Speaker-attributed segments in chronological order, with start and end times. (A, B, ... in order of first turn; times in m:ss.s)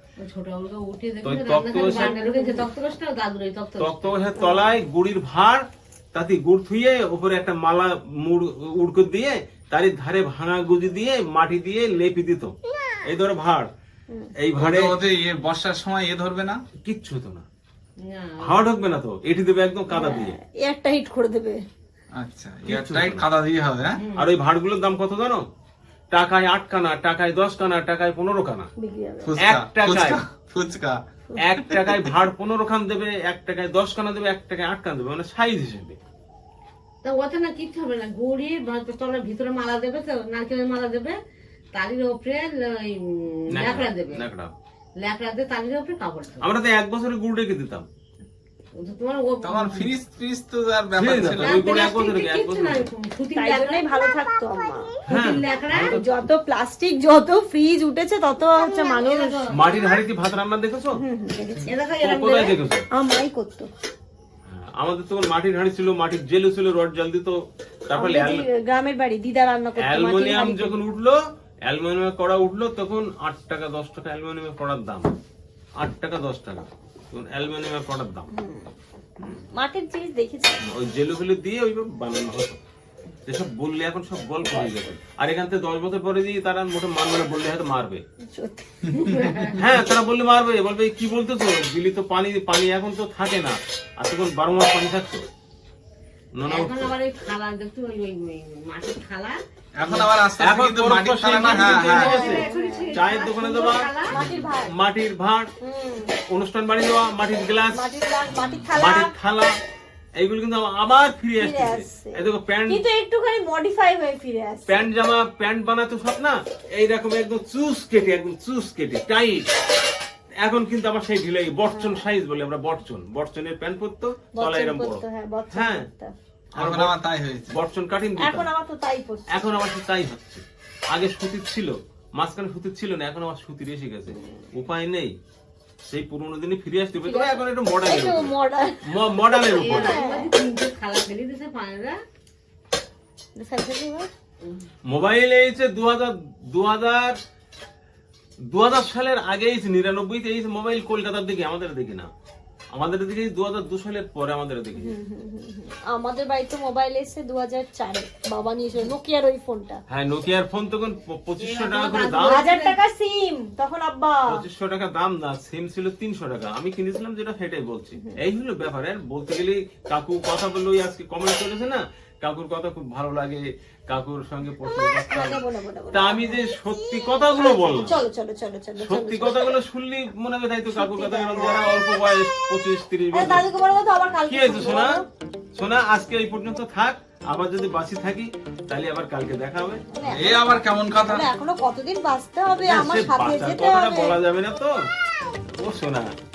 0:00.2-0:04.2 A
0:01.2-0:02.2 B
0:01.9-0:02.7 C
0:03.8-0:13.7 B
0:14.4-0:15.0 B
0:14.6-0:16.6 D
0:16.8-0:17.4 B
0:18.0-0:18.6 A
0:18.4-0:20.4 B
0:19.9-0:21.6 C
0:22.2-0:24.0 D
0:22.6-0:23.3 B
0:24.0-0:24.3 A
0:24.2-0:25.5 B
0:26.1-0:28.7 B
0:28.8-0:29.4 C
0:29.2-0:31.0 D
0:29.4-0:30.2 B
0:31.4-0:36.0 B
0:37.0-0:41.2 A
0:41.7-0:44.2 A
0:43.5-0:44.5 B
0:45.0-0:46.5 A
0:46.4-0:47.9 B
0:48.8-0:49.9 A
0:49.4-0:51.7 D
0:51.0-0:52.9 B
0:51.4-0:53.9 A
0:53.4-0:55.2 C
0:55.1-0:56.0 A
0:55.1-0:56.0 B
0:55.9-0:59.5 C
0:58.8-0:59.9 A
0:59.5-1:01.0 B
1:01.0-1:01.7 C
1:01.7-1:02.5 A
1:02.0-1:02.9 B
1:02.9-1:03.7 C
1:04.5-1:08.5 B
1:08.0-1:10.8 C
1:09.8-1:15.2 B
1:15.8-1:18.3 B
1:18.3-1:18.7 C
1:19.3-1:20.6 C
1:20.6-1:22.6 B
1:23.3-1:28.0 B
1:24.4-1:24.9 C
1:28.3-1:29.5 C
1:28.9-1:29.6 A
1:29.6-1:35.3 B
1:36.4-1:37.0 B
1:36.5-1:39.4 A
1:39.8-1:42.2 D
1:40.4-1:45.5 B
1:41.3-1:44.1 A
1:42.0-1:43.0 C
1:44.0-1:44.7 C
1:45.6-1:46.1 C
1:46.3-1:48.0 B
1:47.7-1:49.1 C
1:48.8-1:49.5 B
1:50.2-1:52.8 B
1:51.4-1:54.8 C
1:54.7-1:59.5 B
2:00.4-2:05.9 B
2:01.7-2:02.1 C
2:04.3-2:06.1 C
2:06.5-2:08.5 B
2:06.6-2:07.5 D
2:08.2-2:09.6 C
2:09.3-2:15.1 B
2:14.1-2:14.4 C
2:15.9-2:18.3 B
2:17.0-2:20.3 C
2:18.8-2:20.0 B
2:19.5-2:22.0 A
2:23.4-2:24.1 C
2:24.9-2:27.2 B
2:28.5-2:32.1 B
2:32.7-2:34.9 B
2:34.8-2:39.8 C
2:39.9-2:42.5 B
2:41.4-2:42.8 A
2:42.2-2:44.4 C
2:44.3-2:55.4 B
2:55.0-2:56.4 C
2:55.9-2:58.0 B
2:57.3-2:59.6 C
2:58.8-3:03.4 B
3:00.7-3:01.8 C
3:03.1-3:05.1 C
3:04.3-3:05.0 B
3:05.6-3:09.8 B
3:09.9-3:14.2 C
3:10.0-3:11.3 D
3:12.7-3:14.9 B
3:15.5-3:16.1 B